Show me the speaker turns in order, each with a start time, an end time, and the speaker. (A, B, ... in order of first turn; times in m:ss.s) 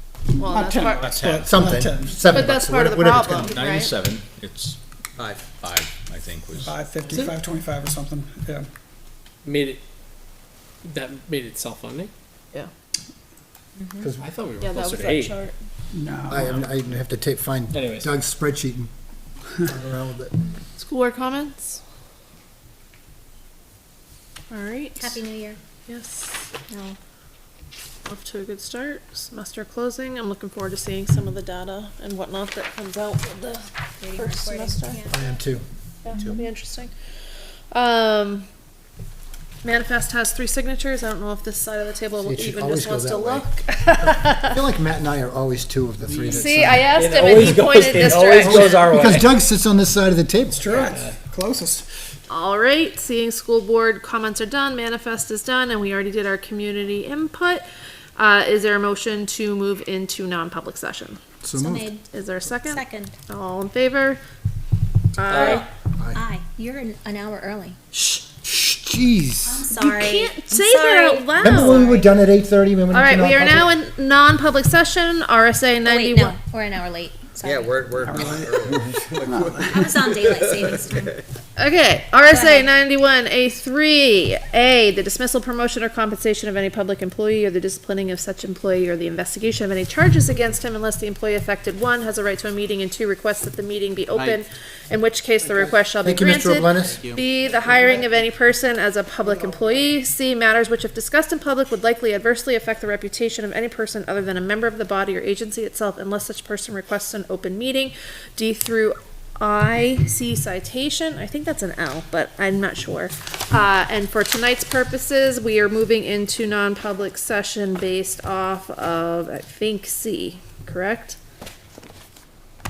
0:00.3-0:01.2 A
0:00.4-0:02.2 B
0:01.0-0:01.6 C
0:01.4-0:03.7 D
0:02.3-0:03.9 A
0:03.4-0:04.8 C
0:05.2-0:05.4 E
0:05.6-0:06.8 C
0:06.6-0:08.7 B
0:07.1-0:07.4 F
0:09.4-0:09.8 F
0:10.8-0:12.1 F
0:14.2-0:15.4 F
0:14.6-0:15.5 A
0:15.9-0:16.7 B
0:16.3-0:18.9 D
0:17.7-0:18.1 F
0:19.6-0:20.4 D
0:20.8-0:21.8 A
0:24.5-0:25.1 A
0:25.0-0:25.6 G
0:25.9-0:26.5 A
0:26.7-0:27.0 G
0:28.0-0:35.0 A
0:34.0-0:35.3 G
0:35.1-0:35.6 D
0:36.0-0:36.9 A
0:36.2-0:36.4 D
0:37.7-0:38.5 A
0:39.6-0:44.6 A
0:42.2-0:43.5 D
0:44.1-0:47.6 D
0:46.0-0:49.3 F
0:46.3-0:48.9 A
0:48.4-0:50.7 D
0:50.5-0:51.8 B
0:50.6-0:51.2 F
0:52.3-0:57.6 A
0:58.2-1:01.2 A
1:01.4-1:01.9 D
1:01.5-1:03.1 G
1:02.1-1:04.2 A
1:05.2-1:05.6 A
1:05.2-1:05.6 F
1:05.3-1:07.8 G
1:07.9-1:09.6 D
1:09.4-1:11.9 G
1:09.7-1:12.0 A
1:11.4-1:13.7 D
1:12.9-1:16.4 A
1:15.8-1:18.4 G
1:17.4-1:21.1 E
1:18.0-1:19.8 B
1:19.6-1:21.2 G
1:21.6-2:01.2 A
1:22.2-1:22.7 G
1:34.1-1:34.4 E
1:36.0-1:37.0 D
1:36.7-1:37.2 E